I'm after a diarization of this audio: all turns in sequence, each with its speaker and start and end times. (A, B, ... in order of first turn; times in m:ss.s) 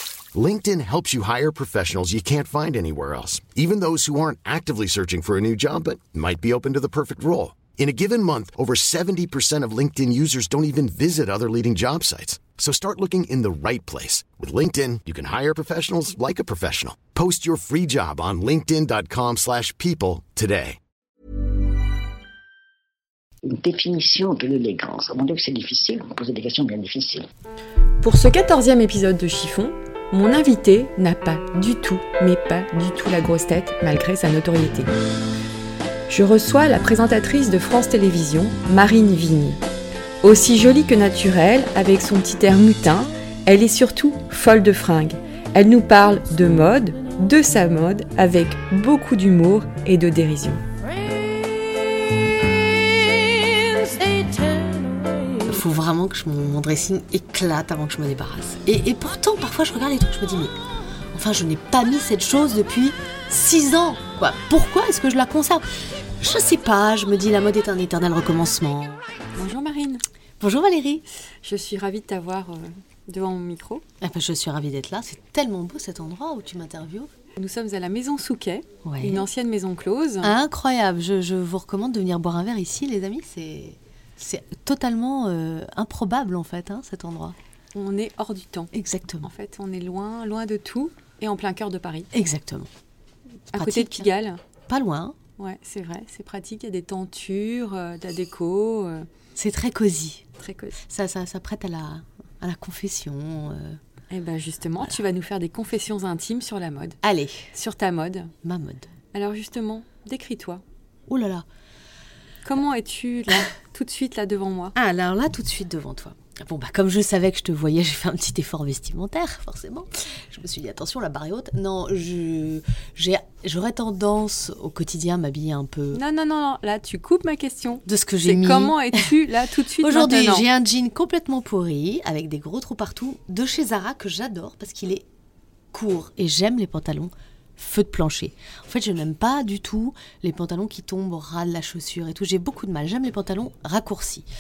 0:00.3-0:20.8 A
0:23.4-0:27.3 B
0:28.0-0:34.9 C
0:36.1-0:39.6 C
0:40.2-0:50.6 C
0:55.4-1:00.6 D
1:01.1-1:05.6 D
1:06.2-1:09.0 D
1:09.3-1:10.0 C
1:10.4-1:11.0 D
1:11.4-1:13.8 C
1:14.0-1:17.1 D
1:17.4-1:20.3 C
1:18.8-1:19.3 D
1:20.2-1:27.3 D
1:27.7-1:28.7 C
1:28.7-1:29.3 D
1:29.2-1:32.1 C
1:32.1-1:32.7 D
1:33.5-1:34.4 C
1:33.5-1:34.1 D
1:34.7-1:35.2 D
1:35.4-1:39.1 C
1:39.4-1:40.3 D
1:40.4-1:40.8 C
1:40.8-1:43.8 D
1:44.1-1:47.0 C
1:47.0-1:47.5 D
1:47.5-1:48.3 C
1:48.4-1:48.9 D
1:49.1-1:50.6 C
1:51.1-1:51.4 D
1:52.4-1:54.8 C
1:54.8-2:06.0 D
2:05.9-2:10.4 C
2:07.8-2:09.1 D
2:09.8-2:15.0 D
2:15.7-2:24.2 D